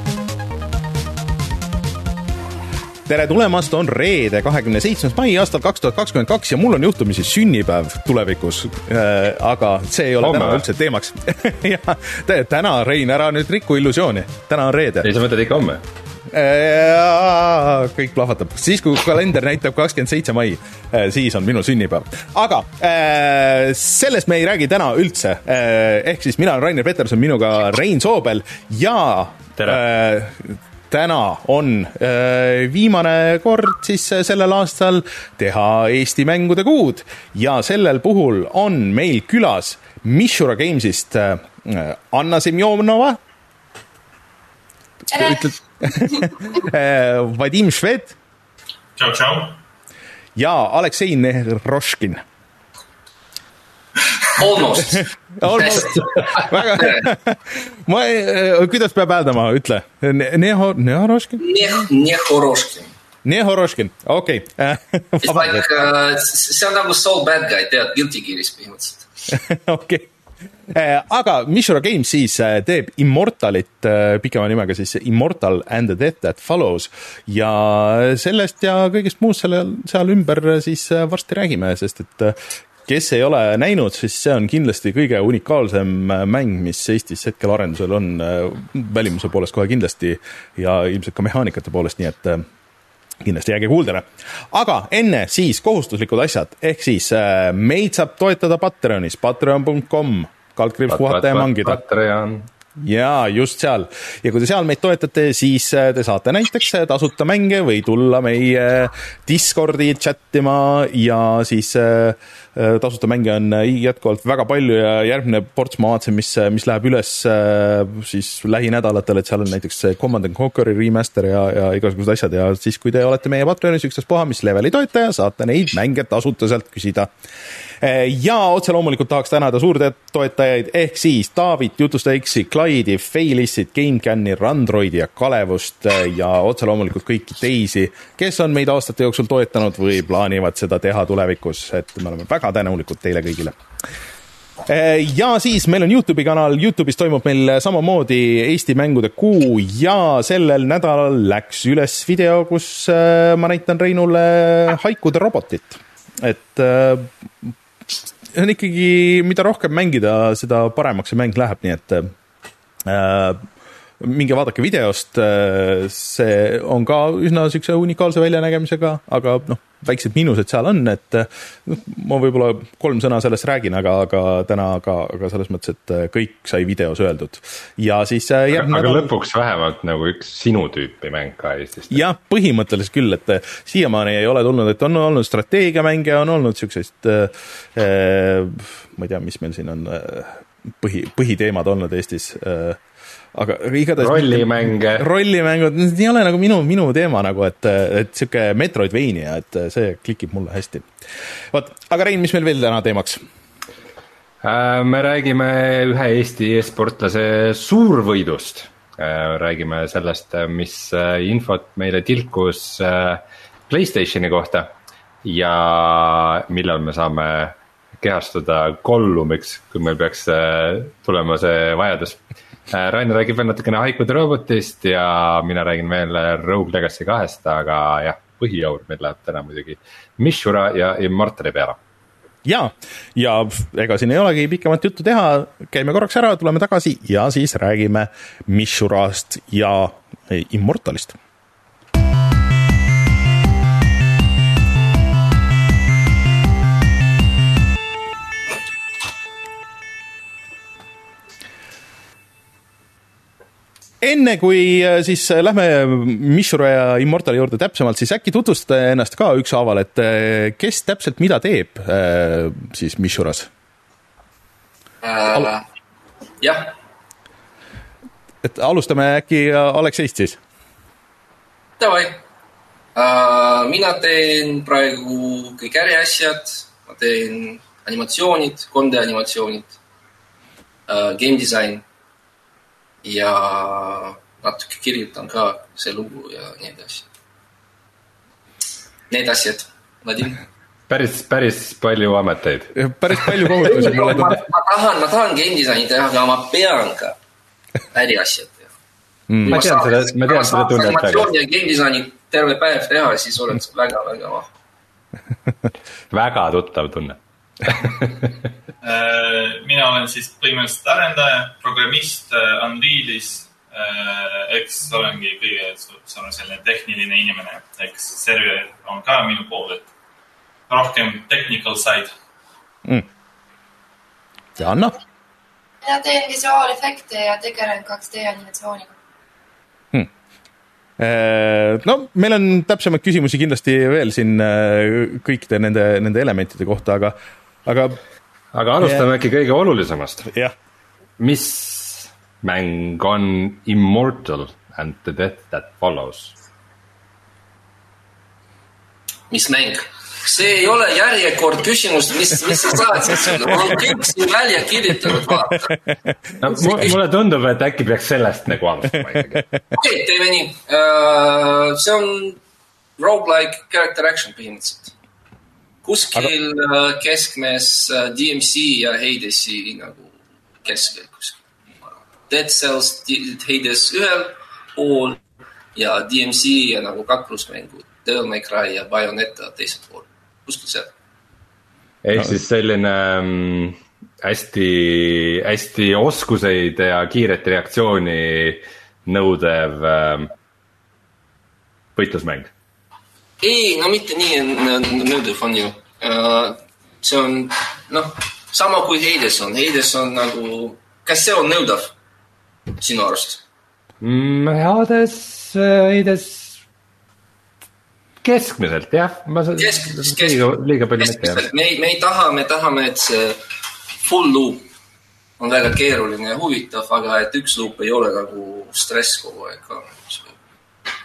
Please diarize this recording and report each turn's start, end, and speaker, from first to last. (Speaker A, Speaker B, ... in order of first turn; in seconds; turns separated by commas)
Speaker A: 3.0-15.1, Speaker B: 10.2-10.6, Speaker B: 15.0-15.8, Speaker A: 16.3-43.2, Speaker B: 29.6-29.8, Speaker C: 45.1-45.5, Speaker A: 45.1-48.1, Speaker D: 49.0-49.6, Speaker A: 50.4-52.2, Speaker E: 54.3-57.1, Speaker A: 54.9-61.8, Speaker E: 61.4-62.9, Speaker A: 63.2-65.7, Speaker E: 65.2-69.1, Speaker A: 69.3-70.1, Speaker A: 70.7-92.4, Speaker A: 93.2-101.8, Speaker B: 100.9-102.5, Speaker A: 102.8-127.1, Speaker A: 127.8-143.6, Speaker A: 144.6-157.5, Speaker A: 158.3-162.1, Speaker A: 162.8-163.4, Speaker A: 164.0-179.1, Speaker B: 178.5-182.0, Speaker A: 181.9-192.8, Speaker A: 193.3-200.9, Speaker B: 194.0-195.1, Speaker A: 201.5-203.2, Speaker B: 204.4-231.8, Speaker A: 232.4-241.2, Speaker A: 254.0-263.5, Speaker E: 265.0-265.6, Speaker E: 266.4-266.7, Speaker A: 268.4-270.4, Speaker E: 271.8-272.2, Speaker E: 272.9-279.8, Speaker E: 280.9-281.8, Speaker E: 283.0-287.1, Speaker E: 289.1-290.4, Speaker B: 290.9-292.7, Speaker A: 292.7-294.4, Speaker E: 293.4-297.2, Speaker E: 297.9-298.7, Speaker A: 299.3-299.6, Speaker B: 299.4-301.3, Speaker E: 299.5-304.5, Speaker B: 306.1-308.3, Speaker D: 308.8-319.9, Speaker D: 320.7-322.1, Speaker A: 324.6-324.9, Speaker C: 325.8-328.9, Speaker A: 331.0-338.0, Speaker B: 338.5-340.3, Speaker A: 338.8-339.1, Speaker A: 340.2-340.5, Speaker B: 341.2-346.3, Speaker E: 349.3-355.7, Speaker A: 355.3-356.9, Speaker B: 356.4-359.4, Speaker E: 359.7-362.4, Speaker E: 363.0-364.9, Speaker E: 365.8-370.1, Speaker E: 370.6-371.4, Speaker E: 372.3-375.2, Speaker E: 375.7-380.9, Speaker B: 382.0-390.3, Speaker B: 391.9-392.5, Speaker E: 393.4-401.9, Speaker E: 402.8-403.4, Speaker B: 404.0-406.5, Speaker B: 408.2-411.5, Speaker E: 409.6-410.4, Speaker E: 411.0-413.4, Speaker E: 413.9-414.7, Speaker E: 415.4-420.4